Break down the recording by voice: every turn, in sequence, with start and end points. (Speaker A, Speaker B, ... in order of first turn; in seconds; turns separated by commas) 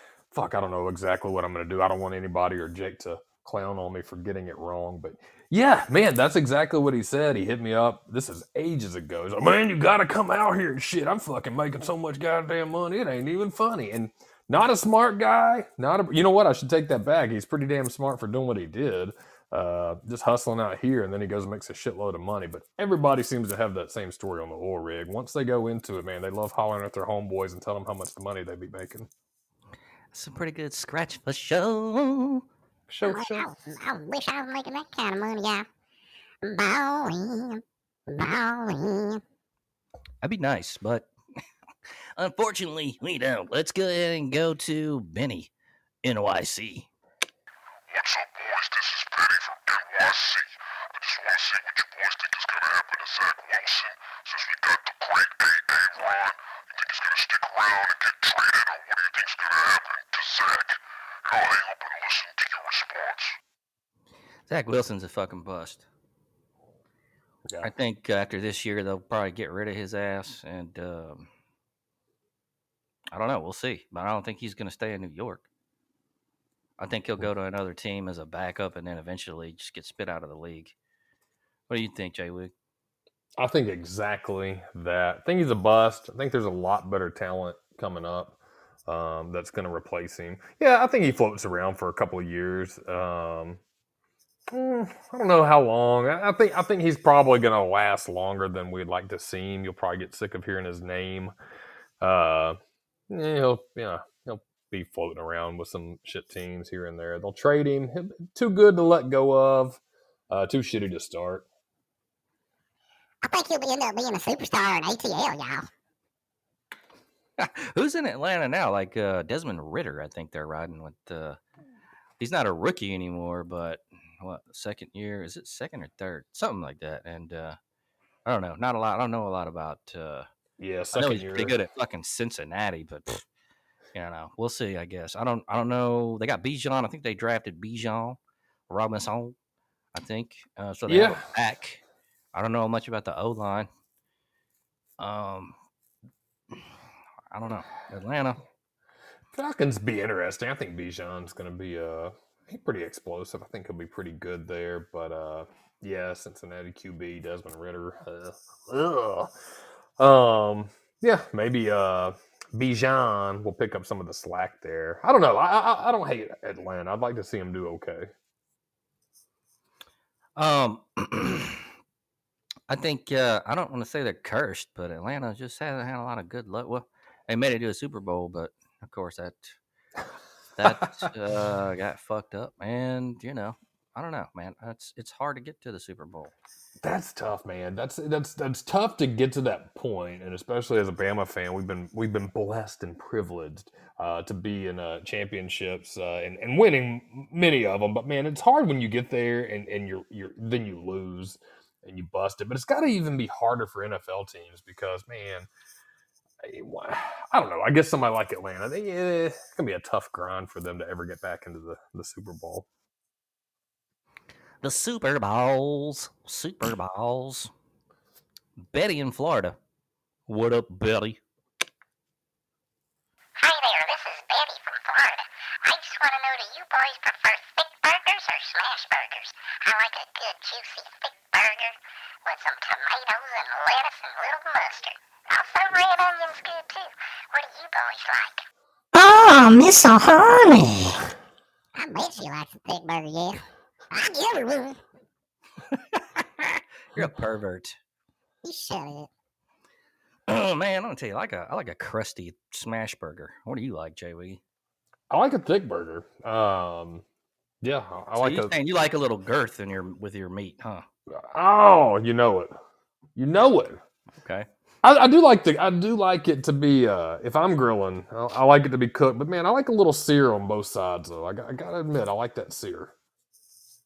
Speaker A: 0.3-29.1, Speaker B: 30.1-32.4, Speaker A: 32.9-33.5, Speaker C: 33.0-35.7, Speaker C: 36.4-39.2, Speaker B: 40.2-41.1, Speaker B: 42.2-45.5, Speaker B: 46.0-46.9, Speaker D: 47.9-60.7, Speaker D: 61.3-63.4, Speaker B: 64.5-65.8, Speaker B: 67.6-71.3, Speaker B: 73.1-75.4, Speaker B: 76.8-80.7, Speaker B: 81.7-82.5, Speaker A: 83.4-93.6, Speaker A: 94.5-101.3, Speaker A: 102.0-102.6, Speaker A: 103.1-111.4, Speaker C: 113.2-115.7, Speaker B: 117.4-121.4, Speaker B: 122.2-127.6, Speaker B: 128.2-130.3, Speaker A: 130.6-131.6, Speaker B: 130.9-133.2, Speaker B: 133.9-139.3, Speaker B: 139.9-141.8, Speaker A: 140.9-141.2, Speaker B: 142.3-143.7, Speaker B: 145.0-145.6, Speaker B: 147.3-148.4, Speaker A: 149.3-159.3, Speaker A: 160.0-168.1, Speaker B: 170.3-171.7, Speaker B: 172.7-179.6, Speaker B: 180.6-186.3, Speaker A: 186.8-205.5, Speaker A: 206.4-212.7, Speaker B: 214.6-217.5, Speaker B: 218.7-219.6, Speaker B: 220.3-221.2, Speaker C: 223.4-241.0, Speaker C: 241.7-244.8, Speaker B: 245.7-247.8, Speaker C: 248.4-249.1, Speaker B: 250.3-254.4, Speaker A: 255.1-257.0, Speaker A: 257.6-258.5, Speaker B: 258.2-260.9, Speaker A: 261.1-262.6, Speaker A: 263.1-263.8, Speaker B: 264.2-264.5, Speaker A: 264.8-272.9